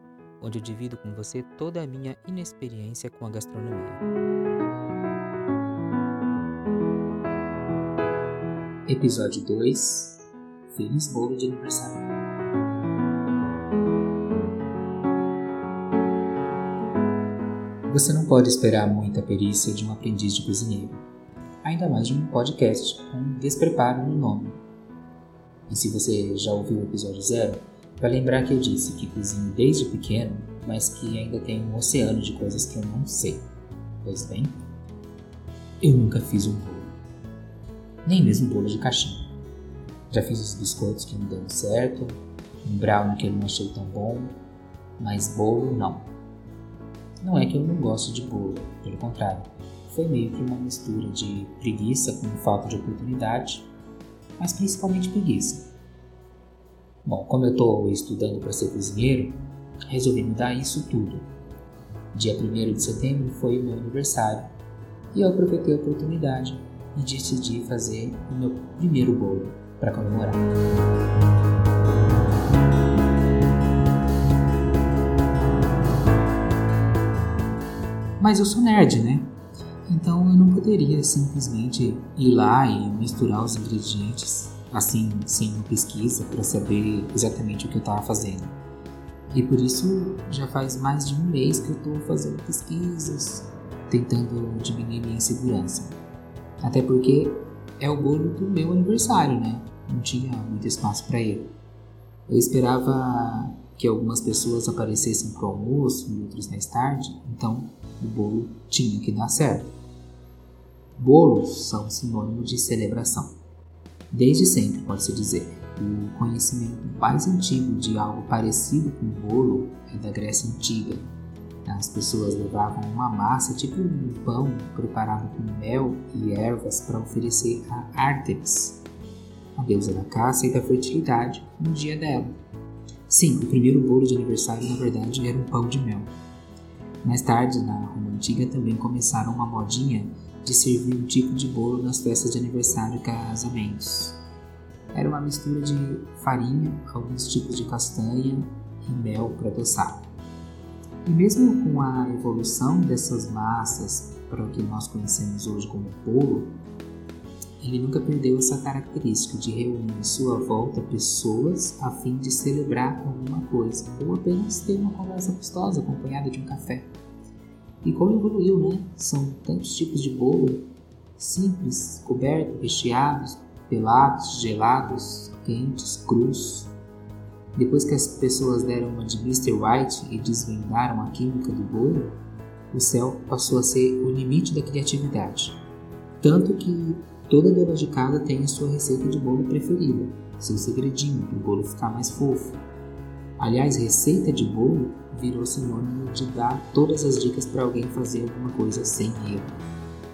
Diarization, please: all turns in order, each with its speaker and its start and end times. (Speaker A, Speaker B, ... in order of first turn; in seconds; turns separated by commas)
Speaker A: 0.4-4.0, Speaker A: 8.9-12.0, Speaker A: 17.9-21.0, Speaker A: 21.6-24.6, Speaker A: 25.7-33.5, Speaker A: 34.0-34.6, Speaker A: 35.8-37.0, Speaker A: 38.0-39.3, Speaker A: 40.1-44.4, Speaker A: 45.0-46.1, Speaker A: 47.2-53.7, Speaker A: 54.4-55.7, Speaker A: 57.0-61.3, Speaker A: 62.1-64.5, Speaker A: 65.1-70.4, Speaker A: 78.2-79.3, Speaker A: 79.9-88.5, Speaker A: 89.3-95.9, Speaker A: 96.6-101.5, Speaker A: 102.3-109.7, Speaker A: 111.0-113.4, Speaker A: 114.1-121.1, Speaker A: 121.7-128.8, Speaker A: 129.6-132.3, Speaker A: 133.1-136.1, Speaker A: 137.0-144.2, Speaker A: 144.9-150.1, Speaker A: 151.0-156.6, Speaker A: 157.6-166.9, Speaker A: 167.8-176.7, Speaker A: 177.5-182.2, Speaker A: 182.7-185.6, Speaker A: 186.2-192.6, Speaker A: 193.4-199.5